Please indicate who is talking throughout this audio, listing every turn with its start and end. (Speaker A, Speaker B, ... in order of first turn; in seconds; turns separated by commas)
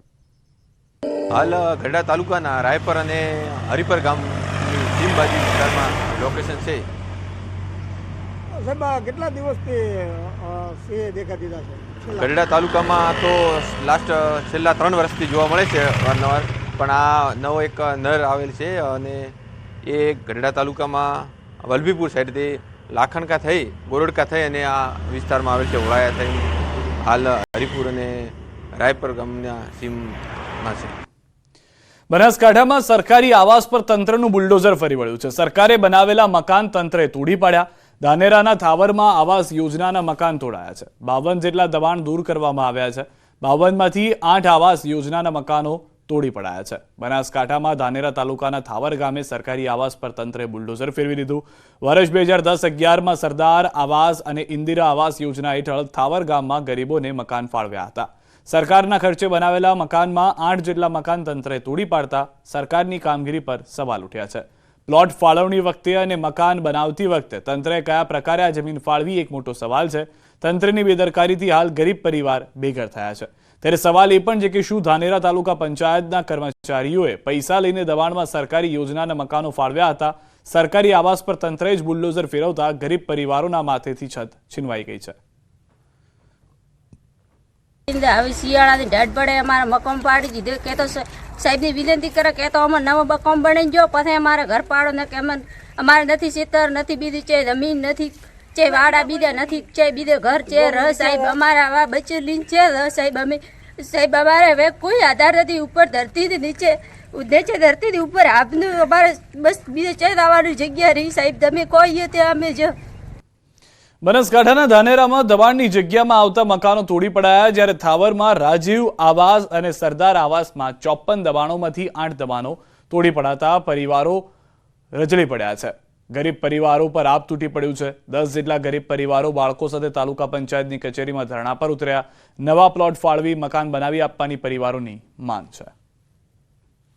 Speaker A: 1.3-6.9, Speaker B: 8.6-12.3, Speaker A: 12.0-26.5, Speaker A: 27.0-31.0, Speaker C: 32.1-85.2, Speaker D: 87.9-112.7, Speaker C: 114.0-124.2, Speaker C: 125.0-135.7